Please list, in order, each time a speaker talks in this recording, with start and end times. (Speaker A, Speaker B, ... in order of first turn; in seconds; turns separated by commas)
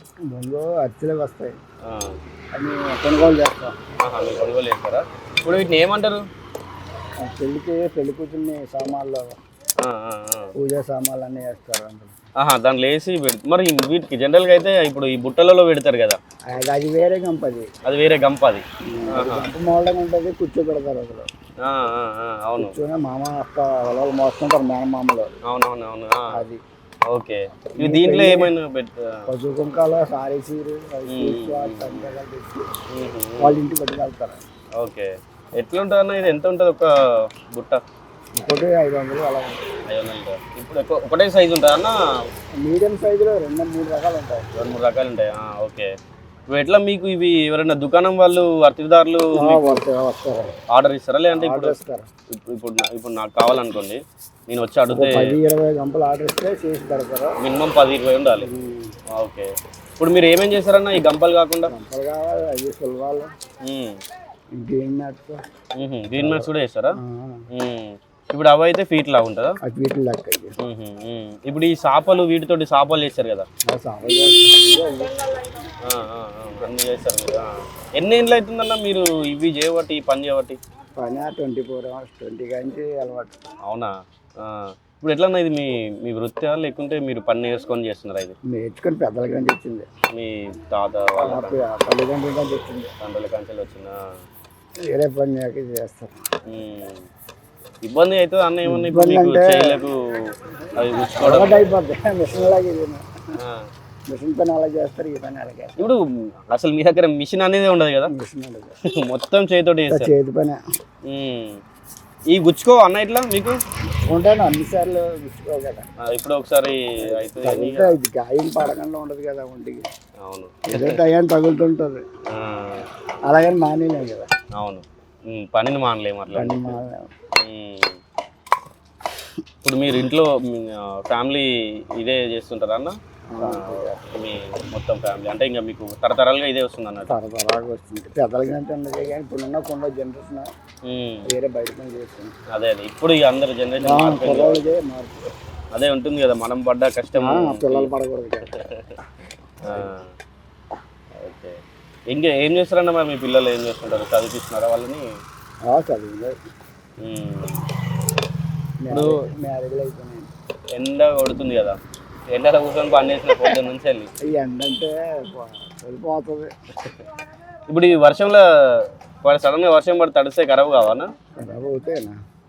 Speaker A: 0.3-1.6, Speaker B: 1.9-2.1, Speaker A: 2.5-3.8, Speaker B: 4.0-6.2, Speaker A: 7.2-9.4, Speaker B: 9.8-10.5, Speaker A: 10.6-12.1, Speaker B: 12.4-16.2, Speaker A: 16.5-17.7, Speaker B: 17.8-18.6, Speaker A: 18.9-21.3, Speaker B: 19.1-19.5, Speaker B: 21.6-22.8, Speaker A: 22.6-25.4, Speaker B: 25.5-26.3, Speaker A: 26.3-26.6, Speaker B: 27.1-29.1, Speaker A: 27.7-28.5, Speaker A: 29.3-32.7, Speaker B: 31.1-32.1, Speaker B: 32.9-33.6, Speaker A: 33.4-34.4, Speaker B: 34.8-36.9, Speaker B: 37.5-37.8, Speaker A: 38.4-39.6, Speaker B: 39.9-41.9, Speaker A: 42.6-44.5, Speaker B: 44.6-45.9, Speaker B: 46.5-49.8, Speaker A: 49.4-50.5, Speaker B: 50.7-51.8, Speaker A: 51.3-52.1, Speaker B: 52.4-55.4, Speaker A: 54.9-57.3, Speaker B: 57.4-58.5, Speaker A: 58.4-58.9, Speaker B: 59.2-61.7, Speaker A: 61.7-63.3, Speaker B: 63.6-64.0, Speaker A: 64.5-65.4, Speaker B: 65.8-67.0, Speaker A: 66.2-67.4, Speaker B: 67.5-69.5, Speaker A: 69.6-70.5, Speaker B: 70.6-73.5, Speaker A: 73.7-75.2, Speaker B: 75.8-80.6, Speaker A: 81.0-83.3, Speaker B: 83.7-83.9, Speaker B: 84.4-88.3, Speaker A: 88.5-89.9, Speaker B: 90.1-91.6, Speaker A: 91.2-92.9, Speaker B: 93.0-93.9, Speaker A: 94.8-96.2, Speaker B: 96.5-97.0, Speaker B: 97.8-100.0, Speaker A: 98.7-99.8, Speaker B: 100.7-101.6, Speaker A: 101.2-103.0, Speaker A: 104.1-105.8, Speaker B: 105.8-108.1, Speaker A: 108.1-108.8, Speaker B: 109.0-110.1, Speaker A: 109.9-110.6, Speaker B: 111.1-111.6, Speaker B: 112.3-113.6, Speaker A: 114.1-115.8, Speaker B: 116.1-118.0, Speaker A: 117.0-119.9, Speaker B: 120.2-121.0, Speaker A: 120.7-122.0, Speaker B: 122.3-122.8, Speaker A: 123.3-124.3, Speaker B: 124.5-126.7, Speaker A: 126.3-127.0, Speaker B: 127.4-128.0, Speaker B: 129.6-137.1, Speaker A: 133.3-134.0, Speaker A: 137.1-140.5, Speaker B: 140.8-141.3, Speaker A: 141.2-142.3, Speaker B: 142.5-144.7, Speaker A: 143.8-145.2, Speaker B: 145.7-147.9, Speaker A: 147.2-148.5, Speaker B: 148.6-148.9, Speaker B: 149.7-150.1, Speaker B: 151.2-151.5, Speaker B: 152.1-155.0, Speaker A: 155.7-156.3, Speaker B: 157.0-157.6, Speaker A: 158.8-160.3, Speaker B: 158.9-159.2, Speaker B: 160.7-161.8, Speaker B: 162.3-164.1, Speaker A: 164.2-166.5, Speaker B: 167.7-168.4, Speaker B: 169.2-171.1, Speaker A: 171.4-172.2